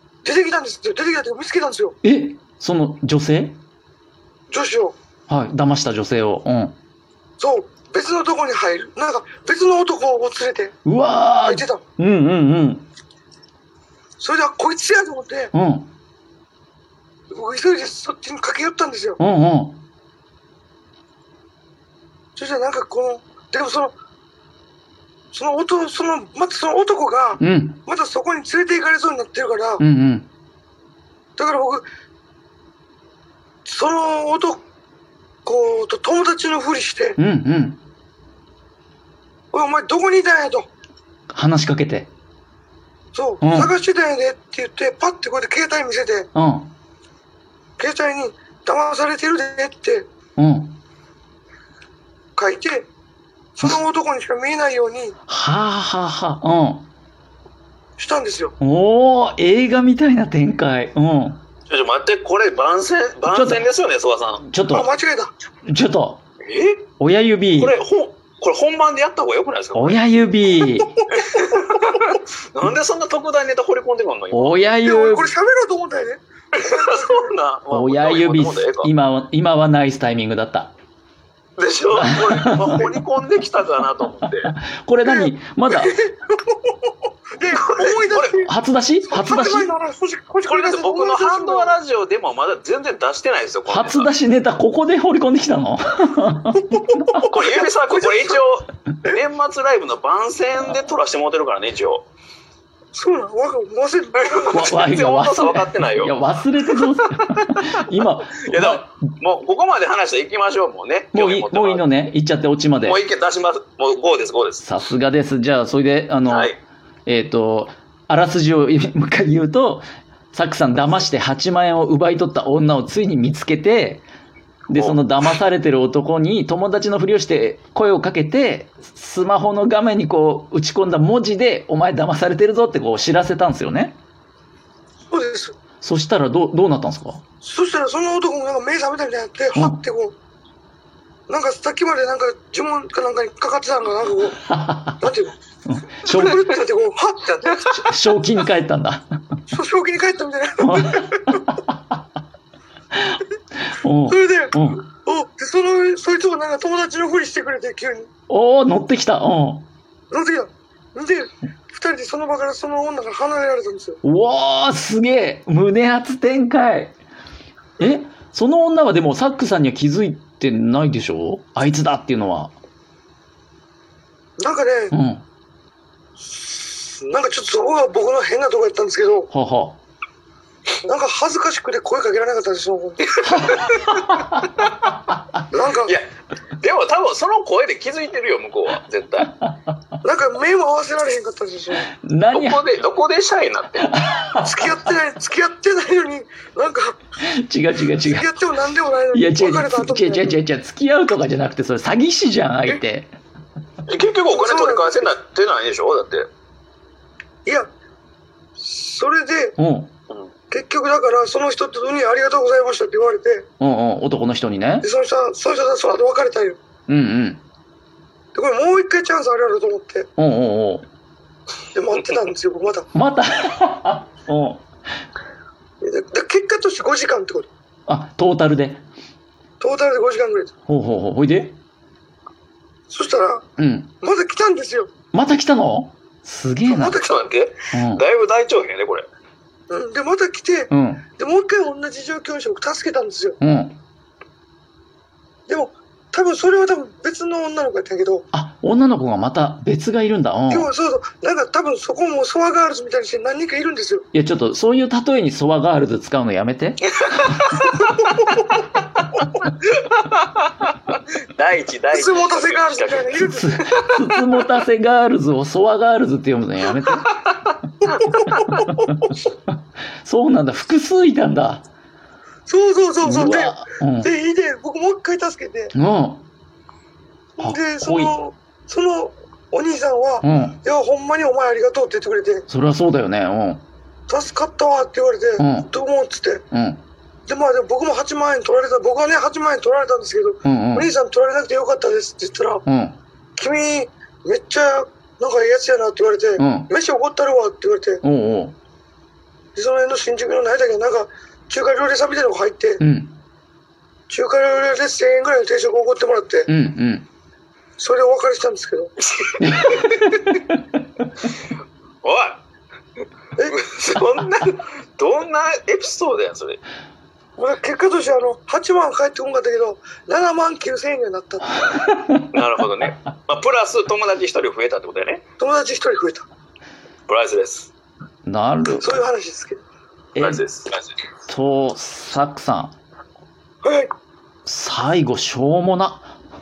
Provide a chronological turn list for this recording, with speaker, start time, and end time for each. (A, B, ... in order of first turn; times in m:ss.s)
0:00.2-0:02.0 A
0:02.0-0:03.6 B
0:04.5-0:04.9 A
0:05.3-0:06.8 B
0:07.4-0:10.8 A
0:10.8-0:12.8 B
0:11.4-0:11.8 A
0:14.2-0:15.5 A
0:15.5-0:15.9 B
0:17.3-0:19.2 A
0:19.2-0:19.8 B
0:22.4-0:23.9 A
0:25.3-0:29.8 A
0:27.4-0:27.8 B
0:29.8-0:30.3 B
0:31.4-0:31.8 A
0:33.6-0:34.6 A
0:35.4-0:37.2 A
0:37.2-0:37.8 B
0:39.5-0:40.7 A
0:41.3-0:42.1 B
0:43.1-0:46.3 A
0:43.4-0:43.7 B
0:46.3-0:46.7 B
0:47.8-0:50.0 A
0:50.4-0:50.8 B
0:52.4-0:52.9 A
0:53.6-0:55.2 A
0:55.3-0:56.8 B
0:58.0-0:58.5 A
0:58.6-1:01.4 B
1:01.7-1:04.5 C
1:03.3-1:03.7 B
1:04.4-1:04.9 B
1:04.7-1:05.3 A
1:05.7-1:06.2 B
1:06.5-1:06.8 C
1:07.0-1:07.7 B
1:07.6-1:10.0 C
1:09.7-1:11.1 B
1:11.1-1:14.6 C
1:14.3-1:15.3 B
1:14.8-1:17.3 A
1:16.5-1:18.9 C
1:17.7-1:20.7 B
1:21.6-1:24.5 C
1:22.0-1:22.8 B
1:24.5-1:26.0 B
1:25.0-1:26.4 A
1:27.4-1:28.5 A
1:27.6-1:28.3 C
1:28.5-1:29.7 B
1:29.1-1:31.7 A
1:30.5-1:34.1 C
1:33.7-1:37.2 B
1:37.2-1:38.4 A
1:37.2-1:42.0 C
1:42.9-1:44.7 A
1:44.2-1:46.1 C
1:44.5-1:48.8 B
1:48.3-1:51.8 C
1:51.1-1:53.0 B
1:52.8-1:54.6 C
1:54.6-1:56.5 B
1:56.2-1:56.6 C
1:57.0-2:04.0 B
2:04.7-2:14.0 B
2:04.7-2:05.0 C
2:15.1-2:15.5 A
2:15.8-2:17.2 B
2:17.4-2:20.1 A
2:21.3-2:24.4 A
2:24.5-2:25.0 B
2:25.0-2:25.3 A
2:25.7-2:26.5 B
2:26.0-2:27.9 A
2:27.7-2:29.2 B
2:29.5-2:31.4 A
2:30.6-2:31.9 B
2:33.1-2:34.8 B
2:34.1-2:38.1 A
2:38.3-2:39.6 B
2:40.1-2:44.0 A
2:44.0-2:47.0 B
2:47.8-2:52.5 B
2:54.4-2:54.9 A
2:54.9-2:55.2 B
2:56.2-2:59.3 A
2:59.3-2:59.8 B
3:00.8-3:03.3 A
3:03.2-3:04.0 C
3:03.4-3:04.6 B
3:05.5-3:05.9 A
3:06.6-3:09.3 C
3:10.0-3:11.9 A
3:12.0-3:12.6 B
3:12.3-3:14.0 C
3:13.9-3:14.7 B
3:14.4-3:17.0 A
3:17.2-3:18.3 B
3:18.0-3:20.4 A
3:19.1-3:23.1 B
3:23.9-3:26.3 C
3:24.3-3:25.1 A
3:28.6-3:29.6 A
3:29.6-3:29.9 B
3:30.5-3:33.5 A
3:33.6-3:34.8 B
3:34.8-3:36.6 A
3:36.9-3:37.4 B
3:38.3-3:40.1 A
3:40.2-3:40.8 B
3:41.7-3:42.9 A
3:42.9-3:44.6 B
3:45.8-3:47.5 A
3:47.9-3:48.8 B
3:49.6-3:50.5 A
3:50.7-3:51.5 B
3:52.9-3:53.4 A
3:53.6-3:53.9 B
3:54.0-3:54.9 A
3:55.1-3:57.0 B
3:56.7-3:57.3 A
3:57.0-3:59.0 C
3:57.7-3:58.0 B
3:59.7-4:03.4 A
4:00.7-4:01.0 B
4:03.4-4:03.8 B
4:05.5-4:08.3 A
4:08.3-4:10.7 B
4:10.5-4:14.0 A
4:14.1-4:17.0 B
4:17.0-4:18.0 C
4:19.8-4:23.2 C
4:21.9-4:23.6 A
4:23.2-4:27.5 B
4:28.4-4:29.2 B
4:28.4-4:28.7 C
4:30.0-4:31.6 B
4:32.5-4:35.7 A
4:33.0-4:34.1 B
4:35.8-4:36.2 B
4:37.4-4:42.4 A
4:37.4-4:38.1 B
4:40.2-4:40.6 B
4:42.5-4:43.6 B
4:44.1-4:46.4 A
4:45.4-4:45.7 B
4:46.5-4:46.8 B
4:47.3-4:52.6 A
4:50.4-4:50.9 B
4:52.6-4:53.0 B
4:53.4-4:58.0 A
4:56.4-4:56.7 B
4:58.0-4:58.5 B
4:59.5-5:02.8 A
5:02.8-5:03.1 B
5:04.1-5:06.5 A
5:06.5-5:07.0 B
5:07.8-5:08.9 A
5:09.2-5:09.9 C
5:09.4-5:10.5 B
5:12.0-5:12.4 C
5:13.5-5:16.6 C
5:17.4-5:21.6 A
5:21.8-5:22.3 B
5:22.3-5:25.2 C
5:25.4-5:26.2 A
5:27.1-5:27.7 C
5:28.2-5:29.0 B
5:28.7-5:29.6 A
5:30.1-5:30.4 B
5:30.2-5:30.9 C
5:31.3-5:32.7 B
5:33.6-5:33.9 A
5:34.4-5:36.1 B